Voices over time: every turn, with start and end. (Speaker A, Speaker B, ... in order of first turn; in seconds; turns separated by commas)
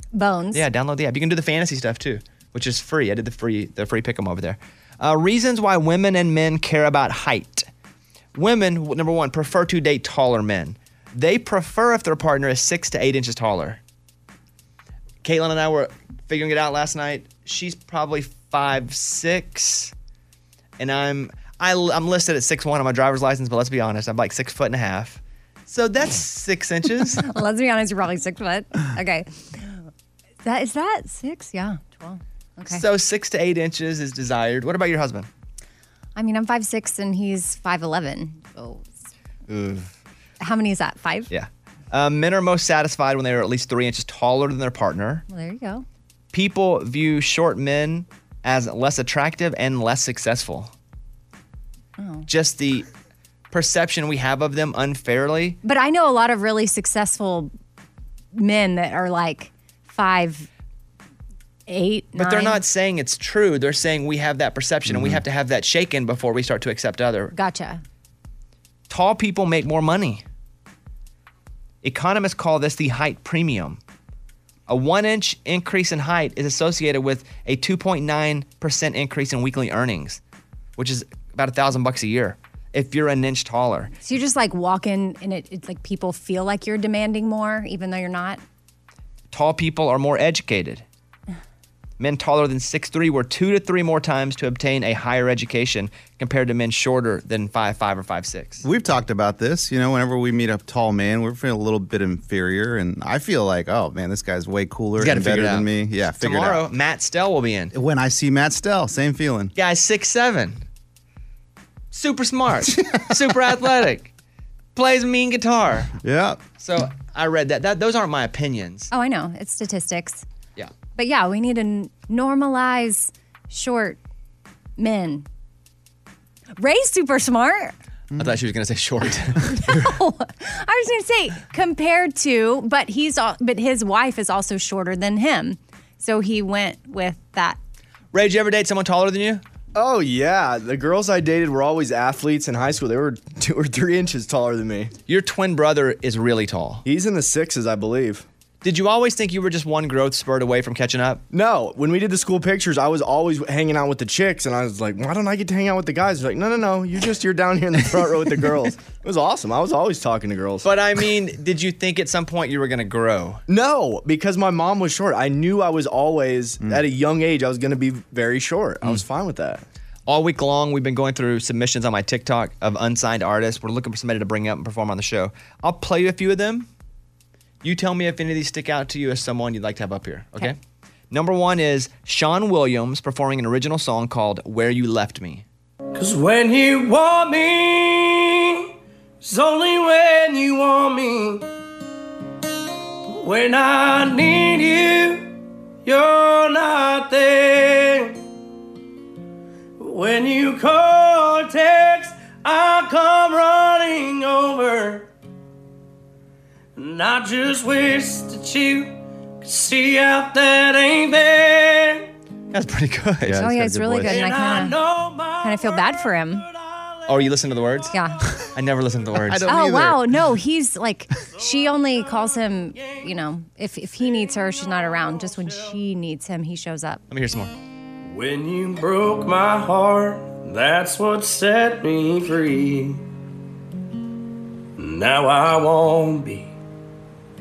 Speaker A: 0.1-0.6, Speaker B: 0.5-7.7, Speaker B: 8.3-13.8, Speaker B: 15.2-19.9, Speaker B: 20.8-27.2, Speaker A: 27.2-29.3, Speaker A: 30.4-32.8, Speaker B: 32.7-35.3, Speaker A: 36.1-38.9, Speaker B: 39.5-39.9, Speaker A: 40.4-41.3, Speaker B: 41.3-45.2, Speaker A: 45.3-45.8, Speaker B: 46.3-50.7, Speaker A: 52.0-52.3, Speaker B: 52.3-52.9, Speaker B: 53.5-55.6, Speaker A: 55.6-57.5, Speaker A: 58.3-60.5, Speaker A: 61.7-62.6, Speaker B: 62.1-67.3, Speaker C: 64.8-65.2, Speaker A: 67.3-67.8, Speaker B: 68.9-70.2, Speaker B: 71.8-73.8, Speaker B: 74.7-80.2, Speaker B: 80.8-83.9, Speaker A: 84.0-88.4, Speaker B: 89.3-90.8, Speaker B: 92.0-98.6, Speaker C: 98.6-106.6, Speaker B: 105.0-105.7, Speaker B: 106.2-107.7, Speaker C: 107.7-109.5, Speaker B: 109.5-110.6, Speaker B: 111.9-114.1, Speaker C: 112.7-113.0, Speaker B: 114.8-115.9, Speaker C: 116.0-116.4, Speaker B: 116.6-118.9, Speaker A: 118.9-120.2, Speaker A: 121.0-124.0, Speaker A: 124.8-125.2, Speaker A: 126.6-127.7, Speaker B: 128.2-129.9, Speaker A: 129.6-137.6, Speaker B: 138.1-139.4, Speaker D: 139.7-144.9, Speaker B: 145.1-146.8, Speaker D: 146.8-148.2, Speaker B: 148.6-151.2, Speaker D: 151.3-160.6, Speaker B: 160.6-163.4, Speaker D: 163.5-169.6, Speaker B: 170.1-176.7, Speaker B: 177.6-180.6, Speaker B: 181.1-185.4, Speaker E: 185.9-191.5, Speaker E: 193.1-195.3, Speaker E: 195.8-198.2, Speaker E: 199.8-205.1, Speaker E: 206.8-212.1, Speaker B: 212.5-213.4, Speaker C: 213.2-214.3, Speaker A: 213.4-214.8, Speaker E: 214.1-217.1, Speaker A: 215.4-216.5, Speaker B: 217.1-217.9, Speaker A: 217.9-218.3, Speaker B: 218.6-219.4, Speaker C: 219.2-220.2, Speaker A: 219.5-227.0, Speaker E: 225.3-225.7, Speaker B: 227.1-227.5, Speaker E: 228.1-233.1, Speaker E: 234.8-236.6